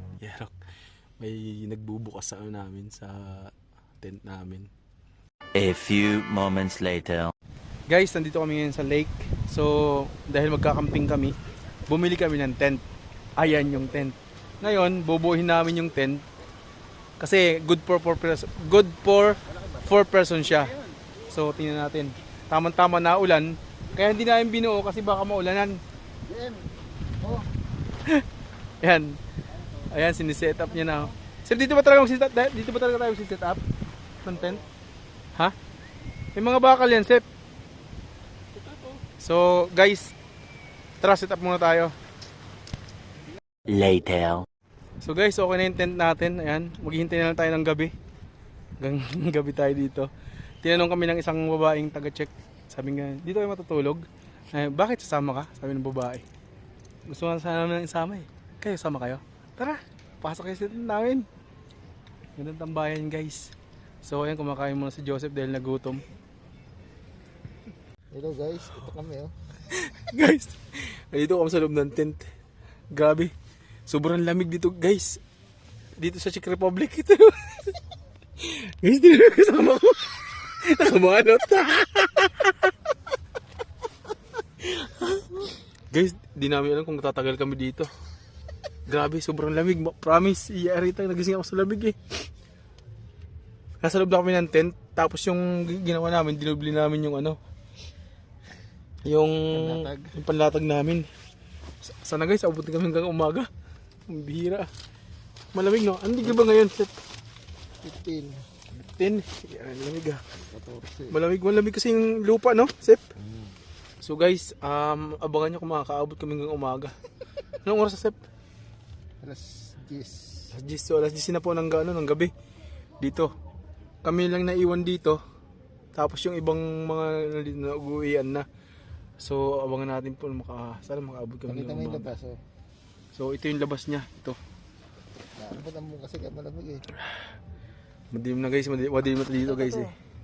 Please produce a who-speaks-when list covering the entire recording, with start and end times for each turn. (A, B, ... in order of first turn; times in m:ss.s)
0:00.2-0:00.5 A
0:01.2-0:04.7 A
0:05.5-0:07.3 B
0:07.9-0:11.3 A
0:11.9-0:12.8 A
0:13.4-0:16.2 A
0:17.2-0:20.7 A
0:21.3-0:25.8 A
0:26.3-0:26.7 C
0:27.2-0:27.4 C
0:28.8-0:29.1 A
0:29.9-0:33.6 A
0:34.2-0:34.6 A
0:36.3-0:37.2 A
0:38.6-0:40.1 A
0:41.0-0:41.9 A
0:43.7-0:44.4 B
0:45.0-0:47.9 A
0:48.8-0:50.1 A
0:50.6-0:56.2 A
0:57.1-1:01.2 A
1:02.4-1:06.0 A
1:08.1-1:09.3 C
1:09.7-1:12.2 A
1:12.9-1:13.3 A
1:13.9-1:15.2 A
1:16.0-1:17.7 A
1:18.4-1:22.7 A
1:24.6-1:27.9 A
1:28.9-1:32.0 A
1:33.8-1:37.4 A
1:39.0-1:41.1 A
1:39.5-1:40.2 C
1:41.8-1:43.5 A
1:44.1-1:44.7 A
1:45.5-1:46.9 A
1:47.8-1:48.4 C
1:48.8-1:50.2 A
1:50.4-1:51.2 C
1:51.1-1:53.0 A
1:53.2-1:53.6 C
1:54.0-1:58.2 A
1:59.2-2:00.5 C
2:00.5-2:02.3 A
2:03.0-2:03.3 A
2:04.0-2:05.2 A
2:05.9-2:08.4 A
2:09.2-2:12.1 A
2:11.5-2:12.4 C
2:13.1-2:14.4 A
2:15.4-2:16.8 C
2:18.1-2:19.9 A
2:19.4-2:19.9 C